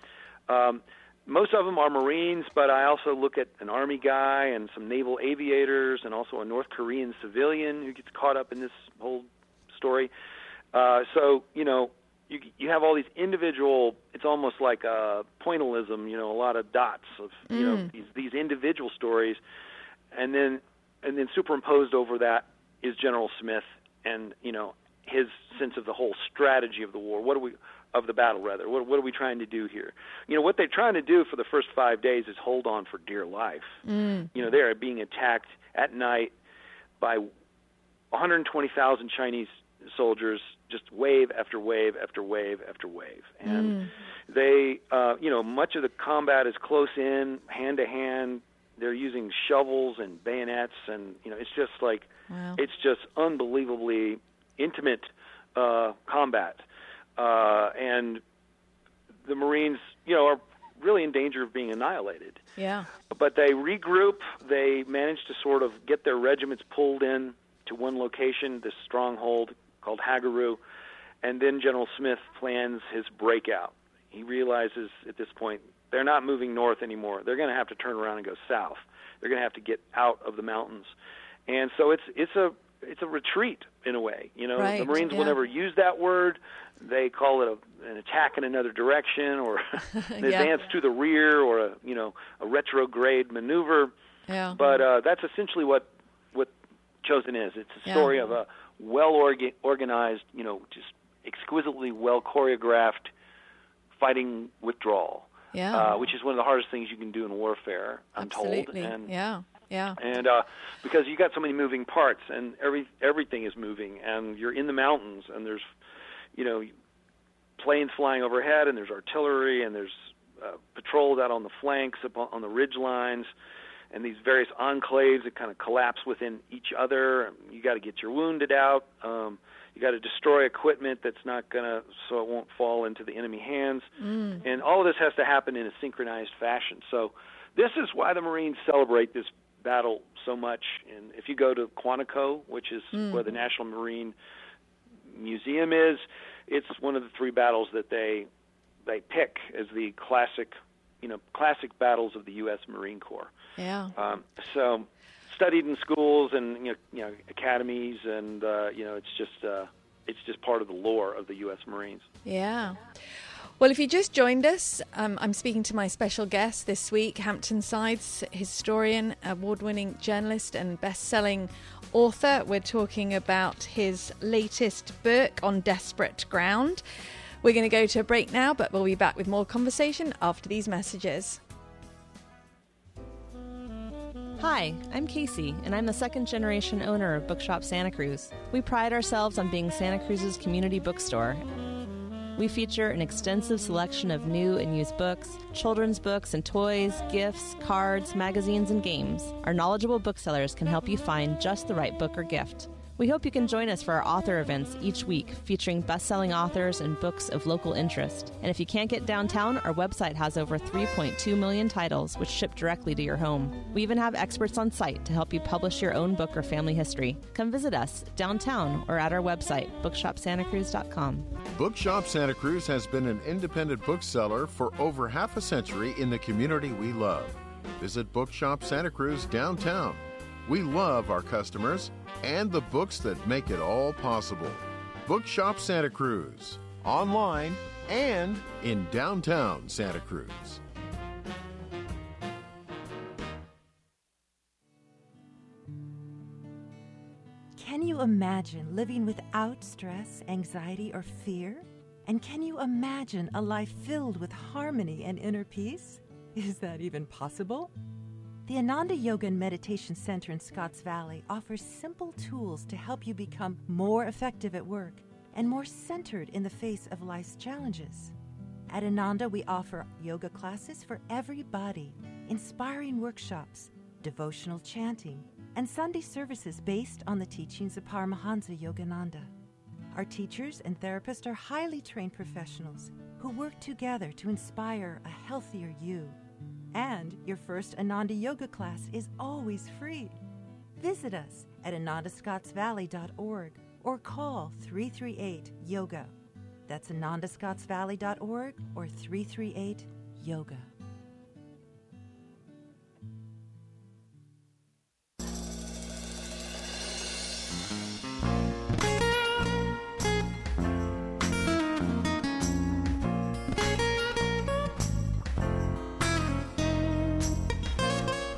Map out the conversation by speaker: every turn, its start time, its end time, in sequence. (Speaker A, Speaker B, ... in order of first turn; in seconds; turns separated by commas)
Speaker A: 0.5-10.1, Speaker A: 10.7-19.4, Speaker B: 17.5-17.9, Speaker A: 20.1-33.8, Speaker B: 33.9-34.3, Speaker A: 34.3-36.3, Speaker A: 37.0-37.3, Speaker A: 38.1-56.6, Speaker B: 43.5-43.9, Speaker B: 52.3-52.6, Speaker A: 57.2-58.2, Speaker A: 59.2-62.4, Speaker B: 62.6-62.9, Speaker A: 63.1-70.6, Speaker A: 71.2-80.9, Speaker A: 81.5-93.9, Speaker B: 84.5-85.3, Speaker B: 89.9-90.5, Speaker B: 94.3-94.6, Speaker A: 94.5-96.5, Speaker A: 97.0-103.1, Speaker A: 104.0-109.1, Speaker B: 105.5-105.9, Speaker B: 108.2-110.0, Speaker A: 110.0-115.6, Speaker A: 116.3-116.7, Speaker A: 117.6-123.3, Speaker A: 123.9-133.9, Speaker B: 134.0-134.4, Speaker A: 134.4-144.1, Speaker A: 145.1-148.3, Speaker A: 148.8-153.3, Speaker B: 153.6-153.9, Speaker A: 153.9-162.1, Speaker B: 162.2-162.8, Speaker B: 163.6-176.8, Speaker B: 177.4-181.4, Speaker C: 184.4-191.4, Speaker C: 192.3-221.2, Speaker D: 221.5-240.6, Speaker E: 247.6-257.7, Speaker E: 258.4-268.1, Speaker E: 268.7-279.3, Speaker E: 279.9-286.2, Speaker E: 286.7-290.2, Speaker E: 290.8-296.1, Speaker E: 296.7-300.6